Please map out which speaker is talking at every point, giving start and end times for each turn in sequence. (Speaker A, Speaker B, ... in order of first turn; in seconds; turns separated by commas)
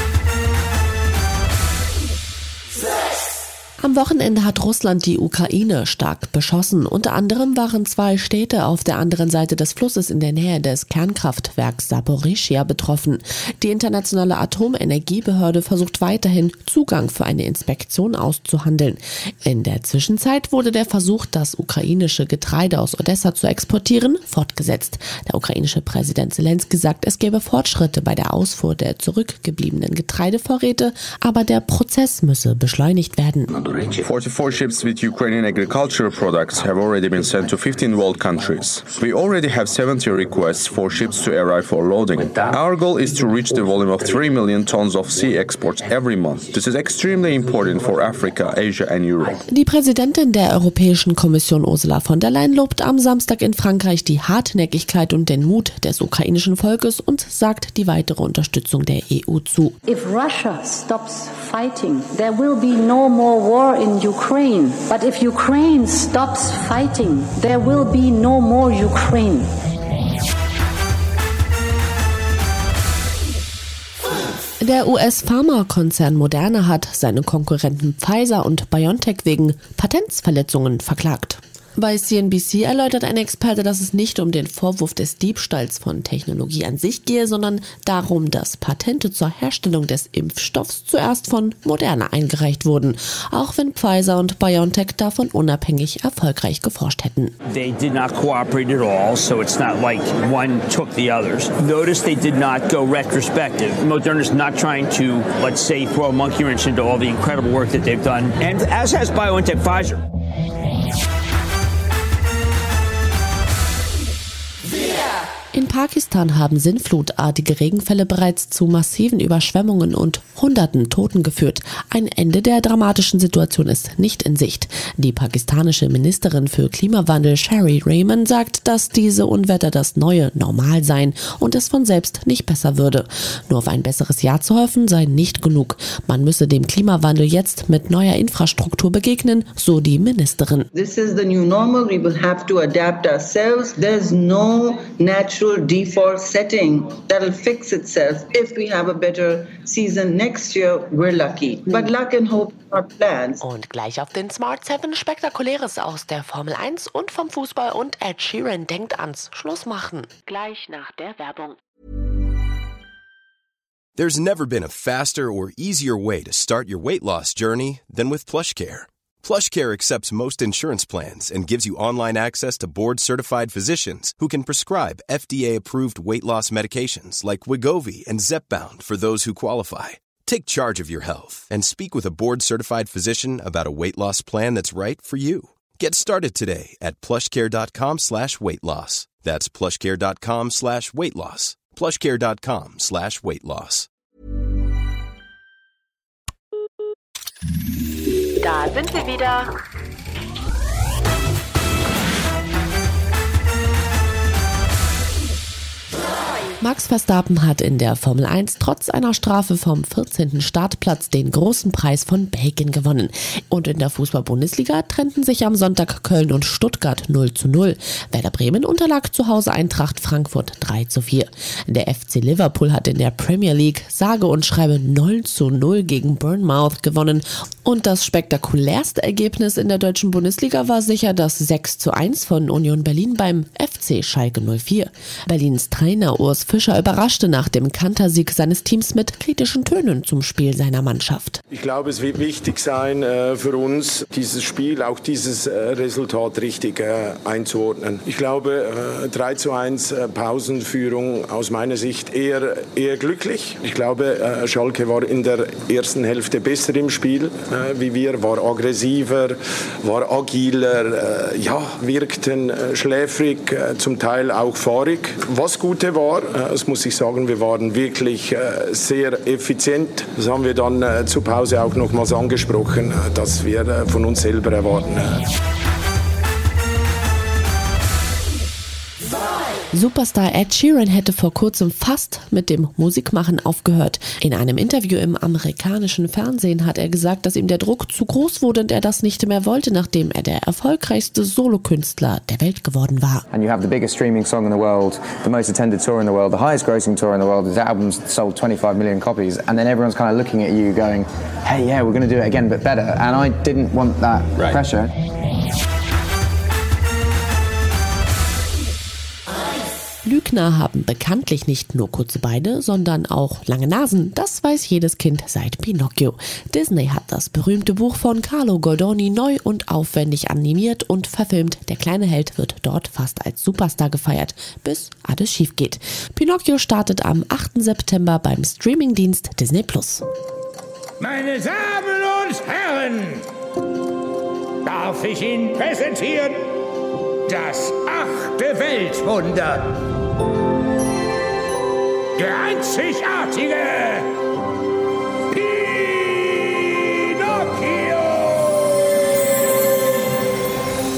Speaker A: 3.8-33.5, Speaker B: 33.9-49.4, Speaker A: 49.5-59.8, Speaker C: 59.9-69.5, Speaker A: 74.6-97.3, Speaker D: 97.5-110.0, Speaker A: 115.5-140.7, Speaker E: 140.7-153.4, Speaker A: 153.4-161.6, Speaker F: 164.0-193.9, Speaker A: 198.4-199.5, Speaker A: 206.6-241.4, Speaker G: 241.5-275.2, Speaker A: 279.7-293.2, Speaker H: 293.3-304.9, Speaker A: 310.0-330.0, Speaker I: 331.0-333.2, Speaker I: 334.7-336.4, Speaker I: 337.3-339.6, Speaker I: 342.2-344.0, Speaker I: 345.5-346.2, Speaker I: 347.1-348.4